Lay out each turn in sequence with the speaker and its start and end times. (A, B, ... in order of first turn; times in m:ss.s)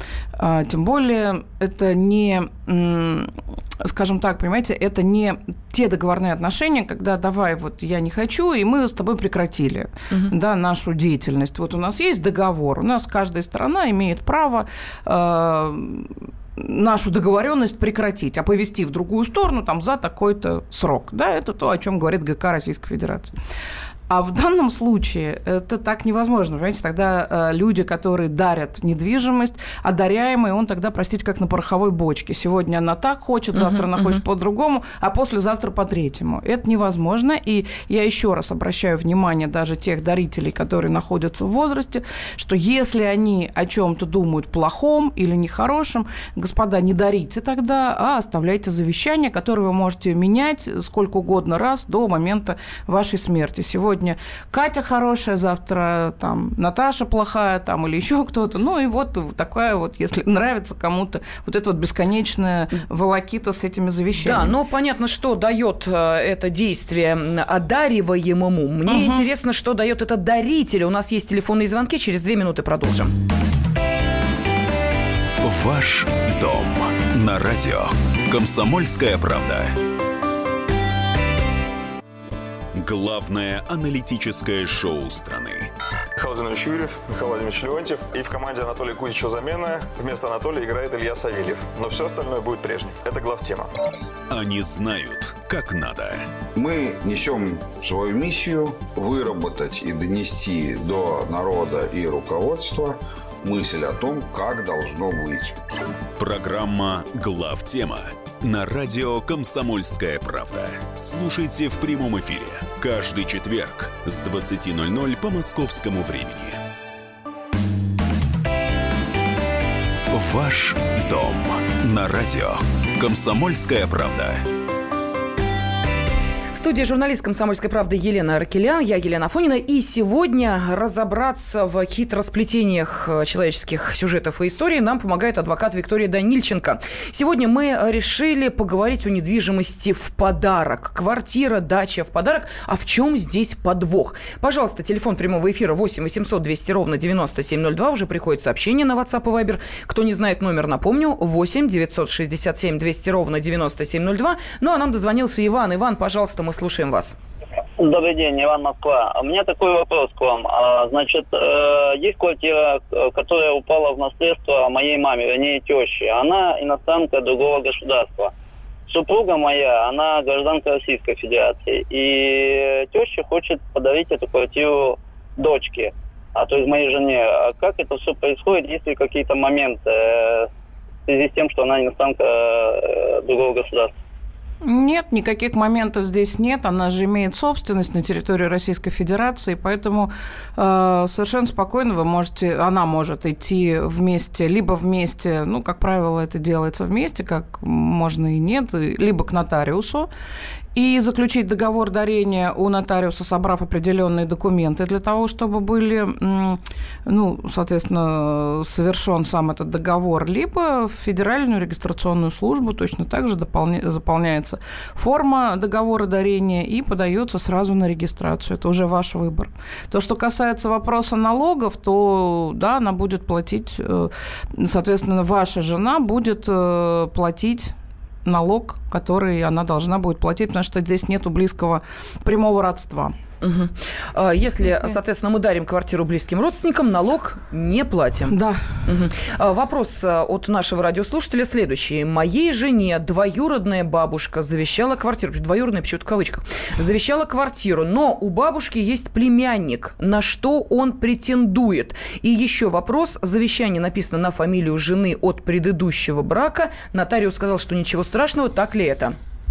0:00.4-0:23.3 A
0:24.1-1:04.5 A
0:33.5-0:34.2 B
1:04.2-1:13.1 B
1:08.9-1:09.3 A
1:15.4-1:19.8 C
1:22.7-1:25.7 C
1:26.2-1:33.7 D
1:34.3-1:36.3 C
1:36.5-1:45.5 E
1:46.2-1:56.6 C
2:00.1-2:04.4 C
2:06.5-2:37.2 B
2:37.8-2:48.3 F
2:48.9-3:00.5 F
3:01.1-3:03.9 F
3:04.6-3:20.1 A
3:20.7-3:53.1 A
3:53.4-4:19.2 B
3:58.3-3:58.6 A